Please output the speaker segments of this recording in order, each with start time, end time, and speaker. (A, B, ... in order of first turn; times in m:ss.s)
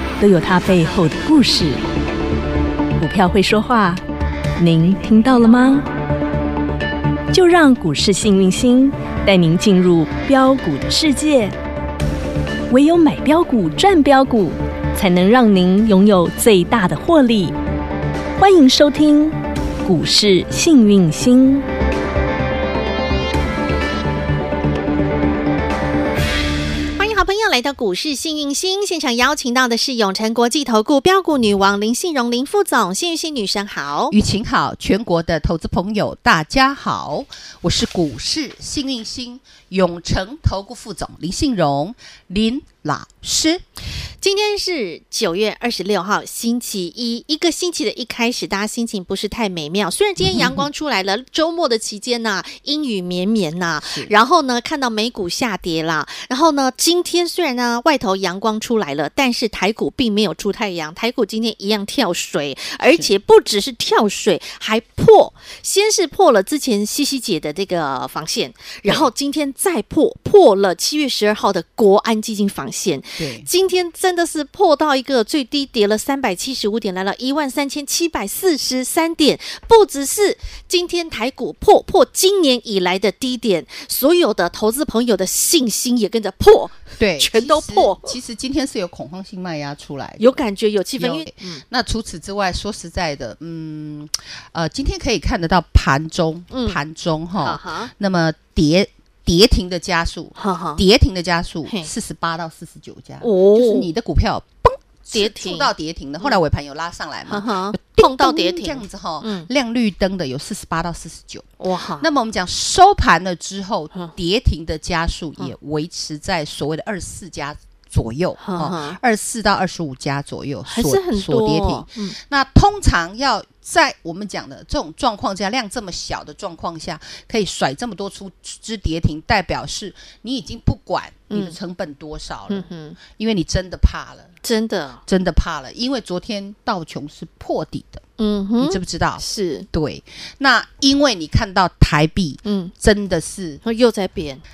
0:00.2-0:01.8 A
0:03.0-0:04.0 A
0:04.6-0:05.9 A
0:07.3-0:11.6 A
0:12.7-0:17.6 A
0:18.4-0:21.7 A
0:27.0-0:34.2 B
0:34.1-0:43.6 C
0:44.2-1:28.1 B
0:50.2-0:50.6 C
0:53.8-0:54.1 C
1:13.2-1:13.5 C
1:27.0-1:30.4 C
1:30.2-1:31.6 B
1:31.0-1:51.5 C
1:36.5-1:36.8 B
1:37.4-1:37.9 B
1:40.4-1:40.8 B
1:43.2-1:43.9 B
1:45.1-1:46.4 B
1:47.3-1:49.5 B
1:51.6-1:52.1 B
1:52.0-2:14.3 C
1:58.4-1:59.0 B
2:00.7-2:02.2 B
2:11.3-2:11.6 B
2:12.5-2:13.0 B
2:14.4-2:15.0 B
2:15.1-2:18.0 C
2:18.2-2:19.7 B
2:18.6-2:23.6 C
2:22.4-2:22.7 B
2:23.6-2:24.4 B